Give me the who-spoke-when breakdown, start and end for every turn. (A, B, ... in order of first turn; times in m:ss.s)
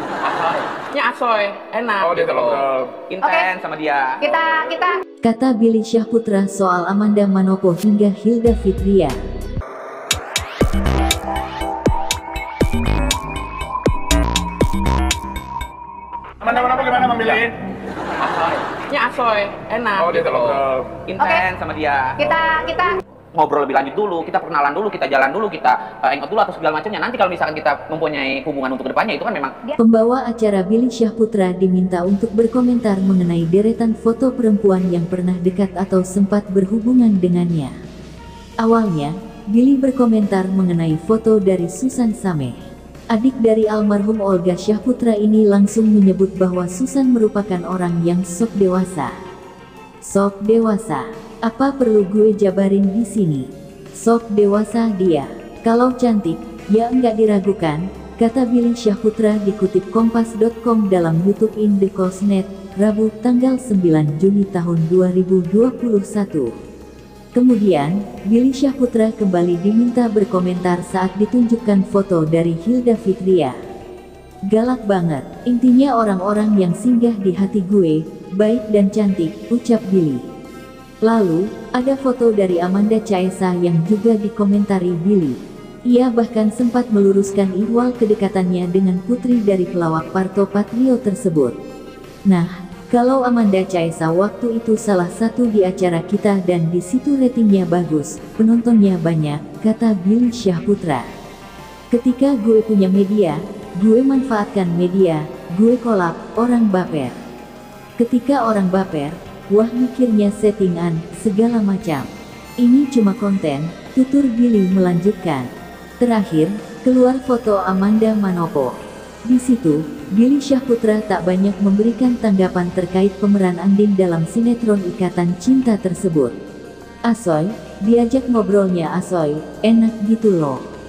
0:00.3-0:04.3 A
0:02.0-0:03.0 B
0:03.2-0:03.5 C
0:04.2-0:05.0 C
0:05.2-0:09.1 D
0:16.4-0:17.5 B
0:18.2-0:22.3 A
0:20.0-0:21.0 B
0:21.2-0:21.4 C
0:22.2-0:23.0 C
0:23.3-0:29.5 A
0:29.8-0:37.7 D
0:38.6-0:42.6 D
0:43.1-0:49.1 D
0:50.1-0:53.5 D
0:54.0-1:06.5 D
1:07.3-1:13.5 D
1:14.5-1:20.2 D
1:21.0-1:25.4 D
1:25.9-1:31.5 D
1:32.3-1:41.0 D
1:41.9-1:47.1 D
1:48.0-1:55.5 D
1:56.0-1:58.7 D
1:59.3-2:06.3 D
2:07.0-2:10.6 D